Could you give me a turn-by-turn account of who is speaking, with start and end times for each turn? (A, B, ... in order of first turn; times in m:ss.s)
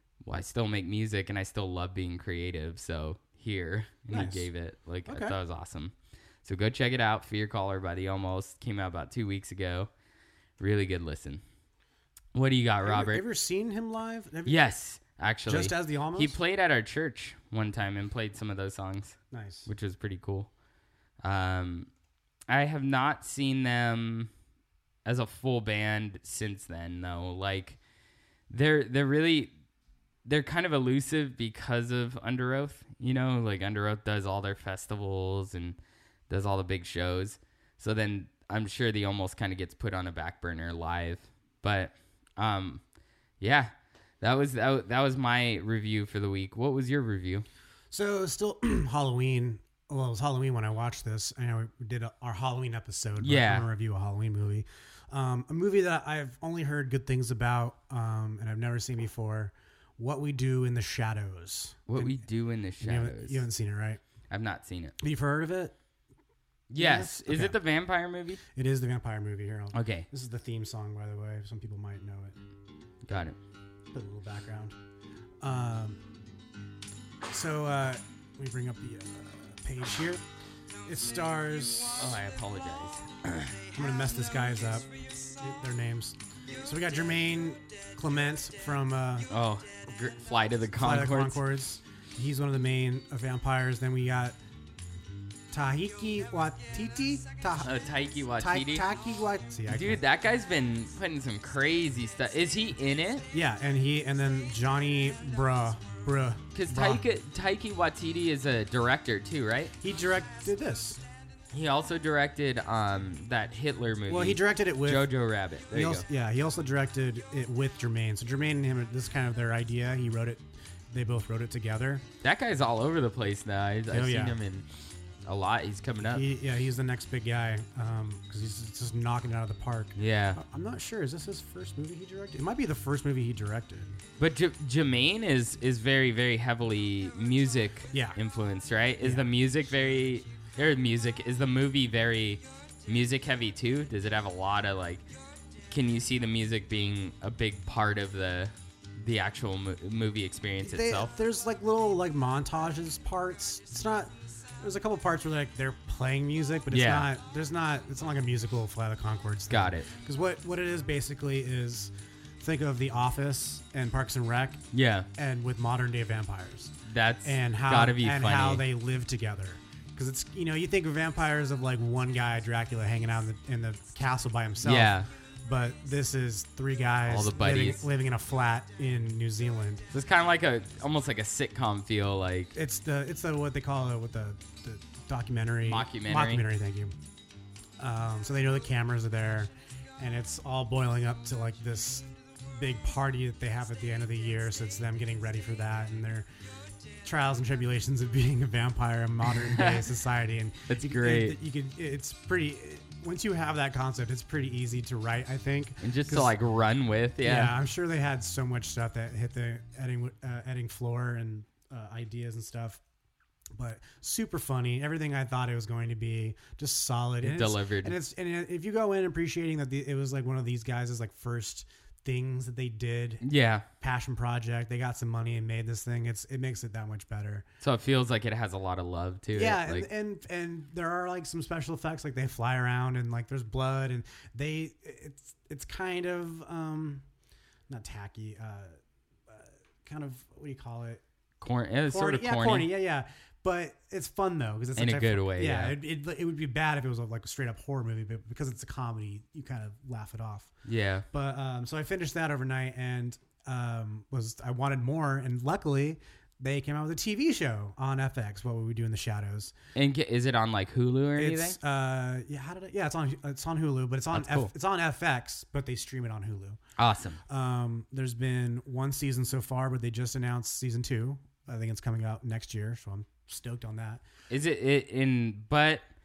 0:00.2-0:09.9 A
0:04.1-0:04.5 B
0:05.1-0:05.4 B
0:10.6-0:11.4 A
0:12.4-0:13.2 A
0:12.8-0:14.6 B
0:14.5-0:20.5 A
0:15.5-0:16.4 B
0:19.3-0:19.7 B
0:21.2-0:21.9 A
0:22.5-0:24.3 A
0:25.0-0:27.8 A
0:28.5-0:29.5 A
0:30.2-0:35.8 A
0:36.3-0:42.8 A
0:43.4-0:47.5 A
0:47.9-1:02.3 B
0:53.2-0:53.7 A
1:01.9-1:03.4 A
1:02.8-1:04.0 B
1:04.3-1:05.0 A
1:05.0-1:05.8 B
1:06.7-1:08.4 A
1:06.8-1:07.6 B
1:08.5-1:12.4 B
1:09.7-1:10.1 A
1:13.1-1:13.4 A
1:13.9-1:14.8 B
1:15.4-1:16.0 B
1:17.3-1:20.2 B
1:20.9-1:22.2 B
1:22.0-1:23.6 A
1:23.7-1:29.3 B
1:29.3-1:31.4 A
1:30.8-1:34.4 B
1:35.5-1:37.7 B
1:37.6-1:38.9 A
1:38.4-1:40.0 B
1:39.7-1:43.3 A
1:43.3-1:47.0 B
1:46.5-1:49.7 A
1:49.8-1:51.0 B
1:51.5-1:56.0 A
1:54.1-1:55.1 B
1:55.7-2:02.0 B
2:02.2-2:04.7 A
2:03.9-2:04.4 B
2:05.2-2:06.2 A
2:06.1-2:13.9 B
2:10.0-2:10.4 A
2:14.2-2:25.0 A
2:17.9-2:18.2 B
2:19.0-2:19.3 B
2:25.7-2:31.1 A
2:30.6-2:44.6 B
2:36.7-2:37.1 A
2:39.5-2:39.9 A
2:44.7-2:45.1 A
2:45.2-2:59.8 B
2:46.9-2:48.6 A
2:54.6-2:55.1 A
2:57.1-2:57.8 A
2:59.9-3:02.5 A
3:02.6-3:07.0 B
3:05.6-3:06.4 A
3:07.8-3:16.3 B
3:17.0-3:26.3 B
3:19.4-3:19.9 A
3:20.7-3:21.4 A
3:25.8-3:27.6 A
3:27.2-3:32.8 B
3:33.5-3:47.5 B
3:37.2-3:38.0 A
3:43.2-3:43.7 A
3:47.6-3:49.9 A
3:49.3-3:57.0 B
3:57.7-3:58.8 B
3:59.3-4:01.0 B
4:01.4-4:02.7 A
4:01.9-4:10.5 B
4:04.8-4:05.8 A
4:10.7-4:11.1 A
4:11.1-4:19.6 B
4:19.8-4:21.6 A
4:21.2-4:26.6 B
4:24.1-4:24.5 A
4:26.8-4:27.2 A
4:27.3-4:34.0 B
4:34.3-4:35.8 A